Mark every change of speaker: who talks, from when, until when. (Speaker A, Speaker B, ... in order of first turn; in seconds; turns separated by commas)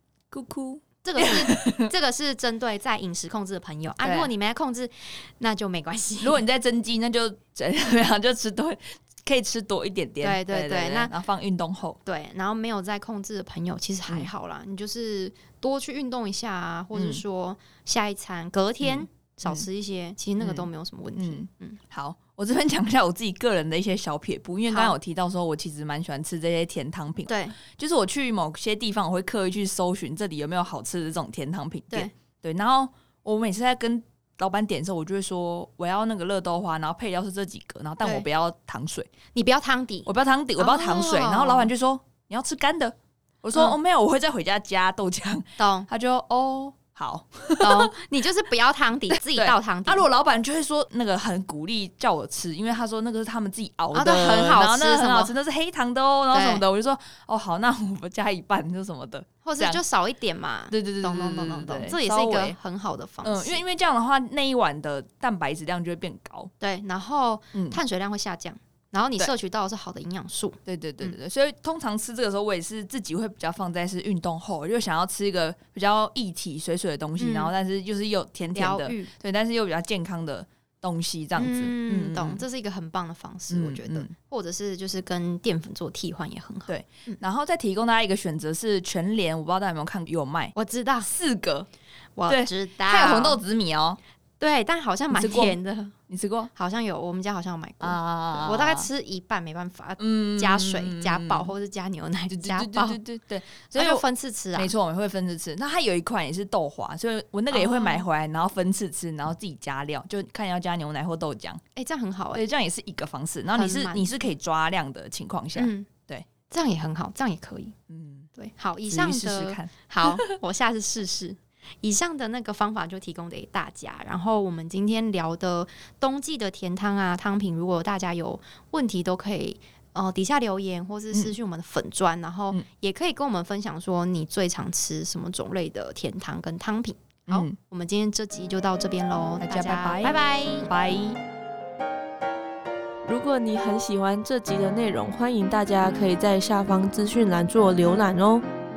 Speaker A: 0.3-1.9, Speaker B: 1.0-6.4, Speaker A: 4.0-4.3, Speaker A: 6.2-12.0, Speaker B: 10.2-11.1, Speaker B: 12.0-21.8, Speaker A: 16.9-17.2, Speaker A: 18.8-19.6, Speaker A: 20.4-39.1, Speaker B: 24.7-25.0, Speaker B: 27.3-27.6, Speaker B: 39.3-41.7, Speaker A: 40.0-47.9, Speaker B: 45.6-45.9, Speaker B: 47.6-50.0, Speaker A: 49.1-59.8, Speaker B: 53.9-55.3, Speaker B: 56.3-56.6, Speaker B: 59.4-63.6, Speaker A: 60.7-62.5, Speaker A: 63.2-66.5, Speaker B: 66.6-71.1, Speaker A: 67.5-67.8, Speaker A: 70.7-82.4, Speaker B: 77.2-77.5, Speaker B: 78.5-79.1, Speaker B: 81.3-87.2, Speaker A: 83.5-84.1, Speaker A: 86.7-90.5, Speaker B: 90.5-91.1, Speaker A: 91.0-91.7, Speaker B: 92.2-93.4, Speaker A: 92.3-94.0, Speaker B: 94.4-95.9, Speaker A: 95.1-95.6, Speaker A: 96.1-96.5, Speaker B: 96.5-103.0, Speaker A: 97.8-98.9, Speaker A: 100.0-101.5, Speaker A: 102.3-104.0, Speaker B: 103.7-104.7, Speaker A: 104.5-111.6, Speaker B: 107.5-108.0, Speaker B: 111.7-112.4, Speaker A: 112.3-116.3, Speaker B: 113.5-114.2, Speaker B: 115.5-115.9, Speaker B: 116.5-117.7, Speaker A: 117.9-118.3, Speaker B: 118.3-140.7, Speaker A: 118.9-120.3, Speaker A: 137.3-137.6, Speaker A: 139.4-141.2, Speaker C: 143.0-148.4